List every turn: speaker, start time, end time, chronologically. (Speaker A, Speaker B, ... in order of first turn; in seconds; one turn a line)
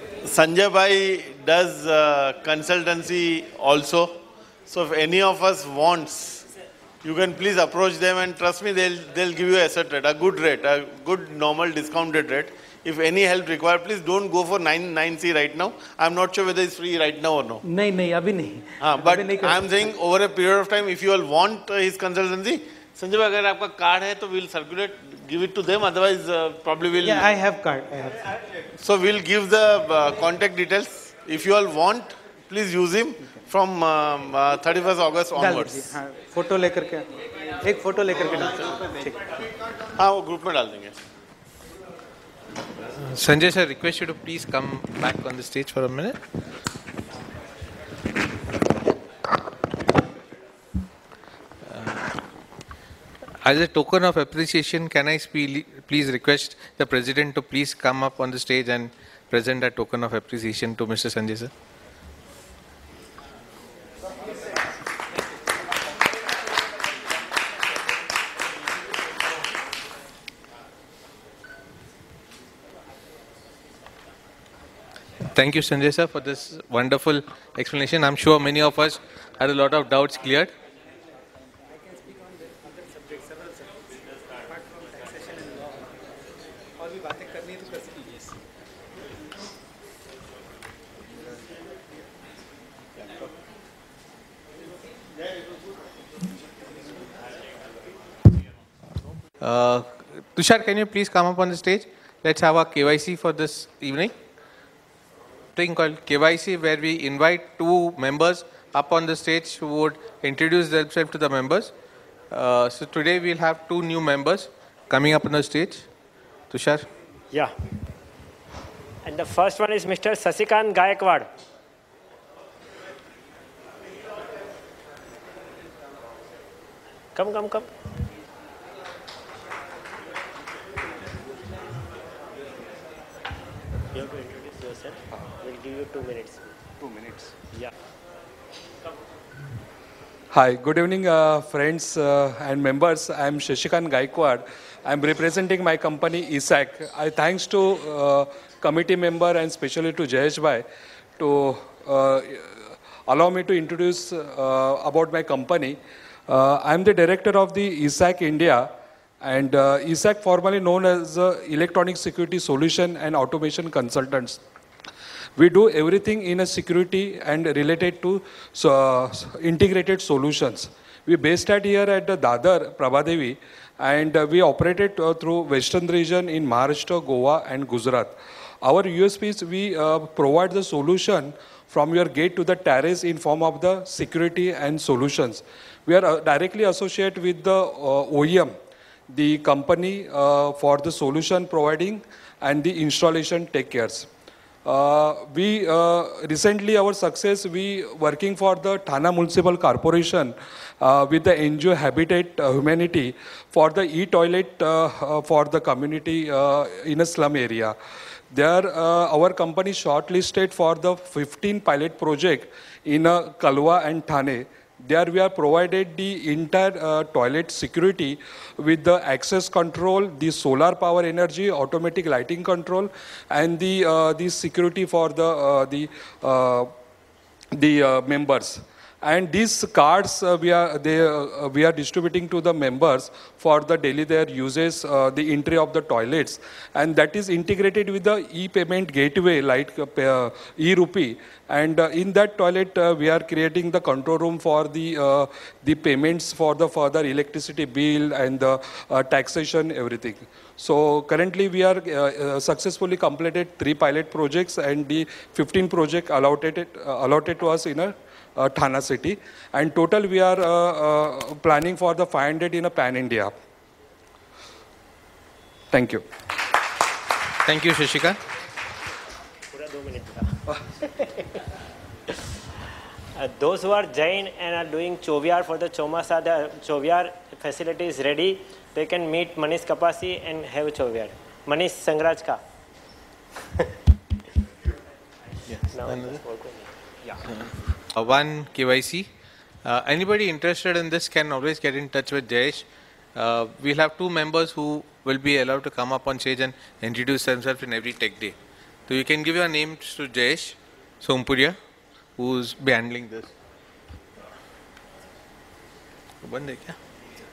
Speaker A: 0.2-6.4
Speaker A: 7.0-17.6
Speaker B: 17.6-19.7
Speaker A: 18.8-27.3
Speaker B: 27.0-28.2
Speaker A: 28.8-36.0
Speaker B: 35.4-39.2
Speaker A: 38.2-39.0
Speaker A: 40.0-41.0
Speaker C: 43.0-46.2
Speaker C: 51.7-52.1
Speaker C: 53.4-61.5
Speaker C: 75.3-80.5
Speaker B: 81.8-83.7
Speaker B: 84.5-85.7
Speaker B: 86.8-88.3
Speaker C: 99.4-104.1
Speaker C: 105.5-111.7
Speaker C: 112.3-115.9
Speaker C: 116.5-116.8
Speaker D: 119.0-121.3
Speaker D: 127.2-127.7
Speaker D: 133.9-136.4
Speaker E: 136.8-137.3
Speaker E: 140.3-150.6
Speaker E: 151.2-158.7
Speaker E: 159.2-164.4
Speaker E: 165.4-188.5
Speaker E: 189.1-194.1
Speaker E: 194.6-207.7
Speaker E: 208.3-226.7
Speaker E: 227.5-263.3
Speaker E: 265.7-266.0
Speaker C: 267.4-268.2
Speaker D: 269.5-270.3
Speaker D: 273.1-282.4
Speaker C: 285.5-286.2
Speaker D: 285.7-286.7
Speaker C: 287.3-289.1
Speaker C: 289.6-298.4
Speaker C: 298.9-301.6
Speaker C: 302.2-303.3
Speaker C: 306.2-306.8